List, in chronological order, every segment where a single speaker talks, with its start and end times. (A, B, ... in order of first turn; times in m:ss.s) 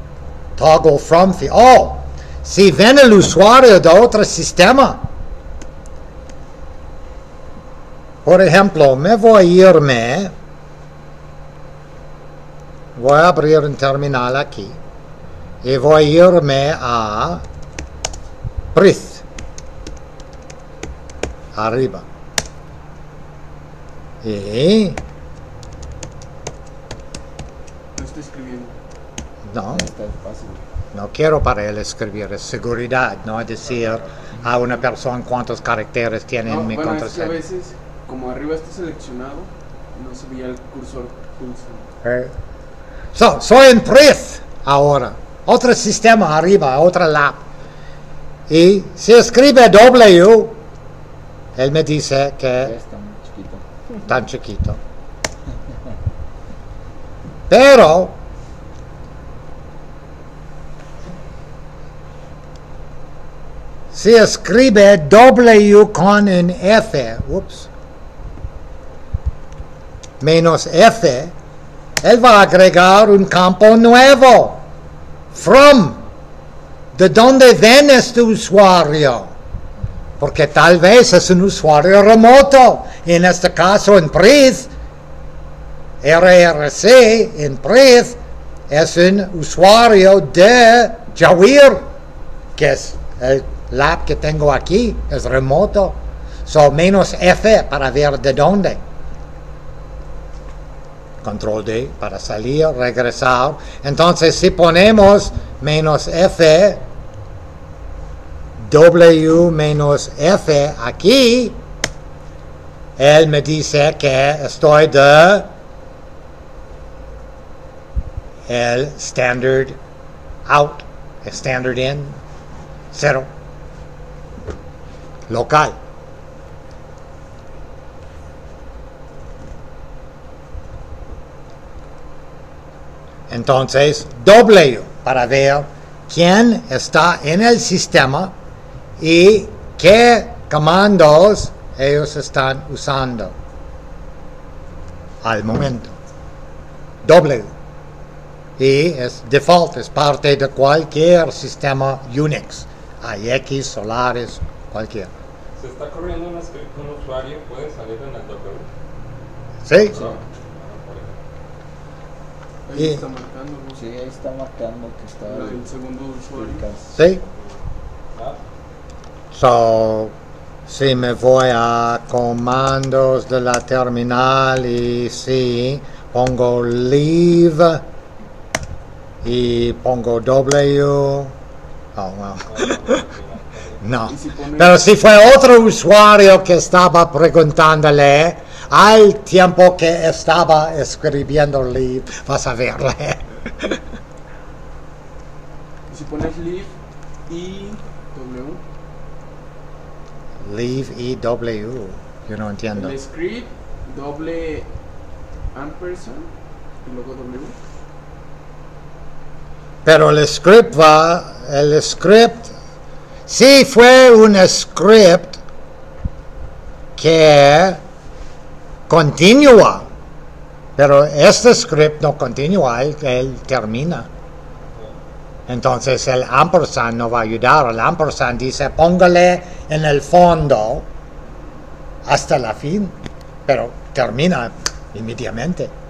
0:00.6-0:05.1 A
0:08.2-0:10.3 A
0:13.0-0:14.8 A
0:15.6-0:17.4 A
0:18.7-0:19.2 A
0:21.6-0:22.0 A
0:24.2-0:25.0 A
0:28.0-0:28.8 B
0:29.4-0:29.9 A
0:29.7-0:30.6 C
0:30.9-0:37.4 A
0:36.5-0:41.9 B
0:42.0-0:42.3 A
0:43.1-0:47.4 A
0:48.5-0:50.6 A
0:51.6-0:52.7 A
0:52.6-0:53.7 C
0:54.1-0:54.8 A
0:57.5-0:58.2 A
1:03.9-1:07.7 A
1:10.2-1:11.3 A
1:12.0-1:14.7 A
1:15.3-1:16.0 A
1:17.0-1:19.3 A
1:20.2-1:24.7 A
1:26.0-1:28.2 A
1:28.7-1:31.8 A
1:32.6-1:38.8 A
1:41.2-1:46.8 A
1:48.6-1:51.6 A
1:53.0-1:55.5 A
1:58.5-1:59.8 A
2:00.5-2:02.2 A
2:02.9-2:03.3 A
2:05.3-2:05.8 A
2:13.3-2:18.3 A
2:19.0-2:23.3 A
2:25.2-2:26.0 A
2:27.0-2:27.5 A
2:28.6-2:35.1 A
2:35.6-2:38.7 D
2:39.7-2:40.0 A
2:39.9-2:41.2 D
2:39.9-2:40.2 C
2:42.7-2:43.8 B
2:42.8-2:43.0 A
2:43.7-2:45.7 C
2:45.3-2:46.6 B
2:46.3-2:47.0 C
2:46.9-2:47.2 A
2:49.3-2:50.1 A
2:50.7-2:57.8 A
2:59.2-3:01.3 A
3:02.0-3:03.0 A
3:02.5-3:03.8 D
3:03.8-3:13.7 A
3:04.1-3:04.8 B
3:15.9-3:16.7 B
3:17.3-3:18.6 B
3:20.4-3:23.0 A
3:22.8-3:24.7 B
3:25.5-3:26.3 B
3:26.8-3:27.6 B
3:29.8-3:32.5 A
3:33.3-3:35.4 A
3:37.0-3:37.8 A
3:38.9-3:39.9 A
3:40.8-3:44.1 A
3:45.5-3:50.9 A
3:52.1-3:53.0 A
3:53.5-3:55.7 A